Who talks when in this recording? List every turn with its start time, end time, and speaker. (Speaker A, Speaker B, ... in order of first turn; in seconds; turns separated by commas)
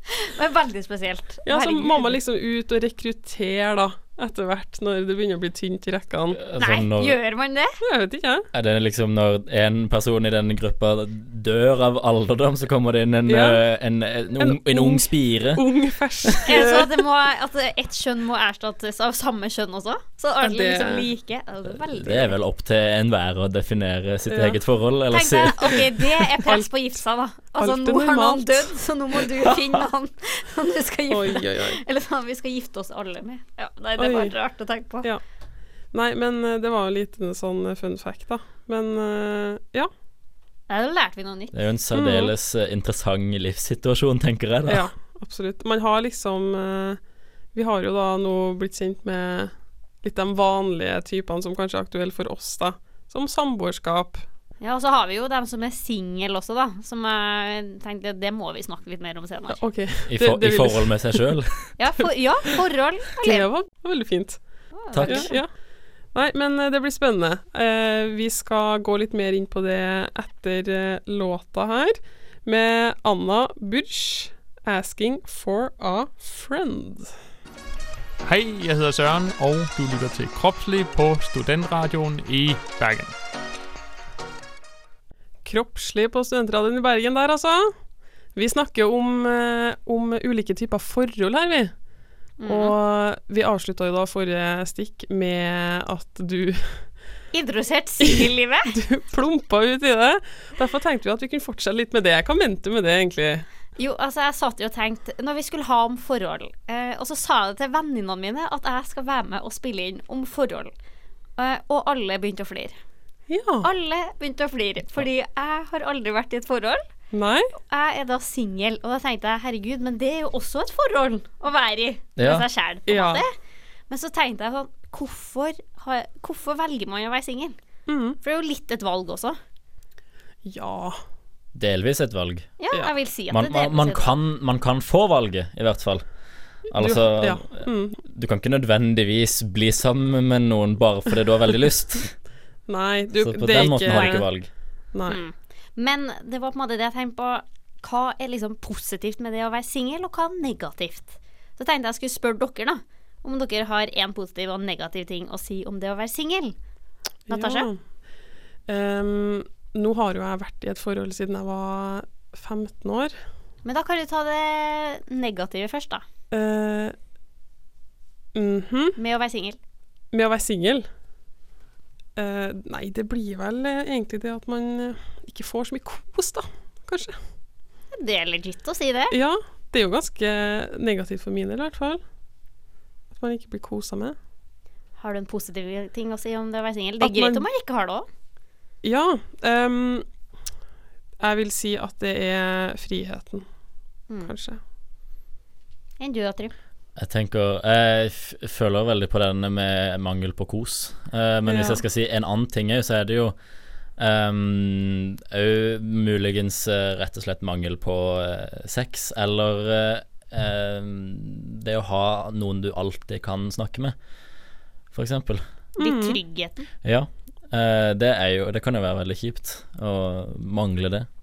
Speaker A: 0.2-2.2, Speaker B: 1.4-6.4, Speaker C: 6.3-7.2, Speaker A: 6.6-7.7, Speaker B: 7.8-8.5, Speaker C: 8.5-15.6, Speaker B: 13.2-13.6, Speaker B: 14.4-16.9, Speaker A: 16.4-22.3, Speaker B: 20.4-21.1, Speaker C: 21.7-25.8, Speaker B: 24.3-24.6, Speaker A: 25.1-35.1, Speaker B: 27.6-28.7, Speaker B: 31.1-31.8, Speaker B: 34.0-34.3, Speaker B: 35.9-39.9, Speaker A: 40.7-41.5, Speaker C: 41.5-44.9, Speaker B: 41.9-42.3, Speaker B: 44.7-47.0, Speaker B: 47.5-49.5, Speaker B: 50.0-54.2, Speaker A: 54.6-59.6, Speaker B: 59.5-61.2, Speaker C: 60.1-61.8, Speaker A: 61.8-63.5, Speaker B: 63.2-64.4, Speaker A: 64.8-65.4, Speaker C: 64.9-65.3, Speaker B: 65.0-65.5, Speaker B: 66.1-77.1, Speaker D: 78.2-83.1, Speaker B: 85.4-87.7, Speaker B: 88.3-91.7, Speaker A: 92.4-92.7, Speaker B: 92.5-96.9, Speaker A: 97.3-98.7, Speaker B: 98.0-103.5, Speaker A: 103.8-110.7, Speaker A: 111.4-112.8, Speaker B: 113.3-113.7, Speaker A: 113.6-116.8, Speaker B: 117.1-117.5, Speaker A: 117.7-123.3, Speaker C: 122.2-122.5, Speaker B: 122.9-123.2, Speaker A: 123.9-127.5, Speaker B: 127.9-128.2, Speaker A: 128.2-129.4, Speaker B: 130.4-131.0, Speaker C: 131.5-132.5, Speaker A: 132.6-134.1, Speaker C: 133.3-136.0, Speaker C: 136.7-142.1, Speaker B: 136.8-138.0, Speaker B: 142.7-144.2, Speaker C: 143.2-144.5, Speaker A: 143.9-144.2, Speaker B: 144.9-145.2, Speaker A: 145.1-156.5, Speaker B: 157.3-157.8, Speaker A: 157.3-157.7, Speaker B: 158.7-163.1, Speaker A: 163.6-166.0, Speaker B: 166.3-166.9, Speaker B: 168.3-169.0, Speaker A: 169.0-169.6, Speaker B: 170.1-170.9, Speaker B: 172.2-177.2, Speaker A: 177.9-179.2, Speaker B: 179.1-182.0, Speaker B: 183.1-184.2, Speaker A: 185.0-188.1, Speaker B: 187.0-187.4, Speaker B: 188.8-190.0, Speaker B: 191.2-193.4, Speaker B: 194.2-194.6, Speaker A: 196.0-196.5, Speaker C: 196.9-203.4, Speaker B: 201.5-201.8, Speaker C: 204.0-213.9, Speaker C: 214.9-215.4, Speaker A: 215.8-216.7, Speaker B: 215.8-216.2, Speaker C: 216.8-221.1